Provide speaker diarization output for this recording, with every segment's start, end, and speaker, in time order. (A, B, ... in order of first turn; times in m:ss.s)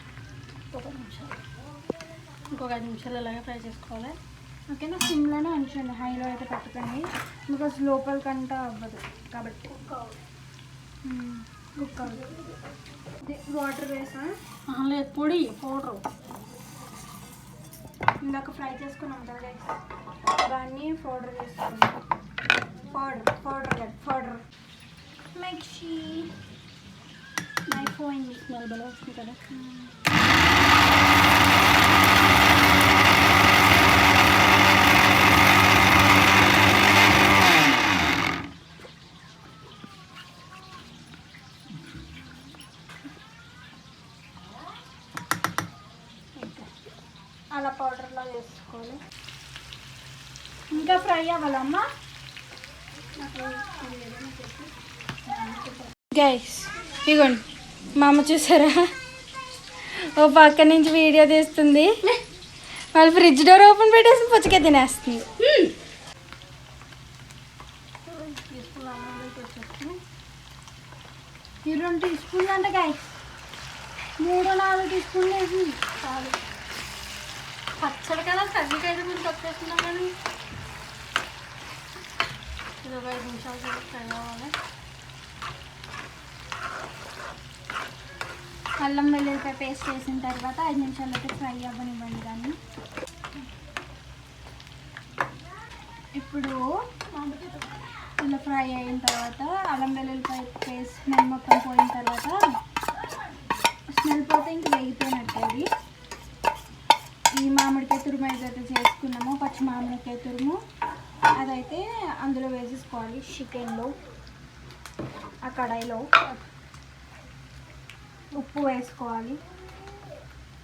0:00.7-0:01.4 A
0:02.5-0:04.2 A
0:04.7-0:09.7 B
0:09.7-0:10.2 A
0:11.0-0:12.3 B
0:13.2-0:14.4 B
0:14.7-0:16.0 A
0:18.2-0:19.8 B
0:20.4-0:22.0 B
0:22.9-0:24.4 B
0:25.3-0:26.3 B
0:27.7-0:29.4 A
0:29.5-0:30.0 B
0:46.4-0:46.7 A
0:47.5-0:49.0 B
0:50.7-0:51.8 B
0:53.2-0:54.7 A
0:55.2-0:55.9 A
0:56.1-0:57.4 B
0:57.9-0:58.9 B
0:59.8-1:01.9 B
1:02.9-1:05.3 B
1:05.4-1:05.7 A
1:08.0-1:10.0 A
1:11.6-1:13.2 B
1:14.2-1:15.8 B
1:16.0-1:16.4 A
1:17.8-1:20.1 A
1:22.8-1:24.5 A
1:28.8-1:32.6 B
1:36.1-1:36.6 B
1:37.1-1:37.8 A
1:38.2-1:42.4 B
1:43.9-1:45.7 B
1:47.4-1:50.6 B
1:51.3-1:53.9 B
1:55.4-1:56.1 B
1:58.3-1:59.4 B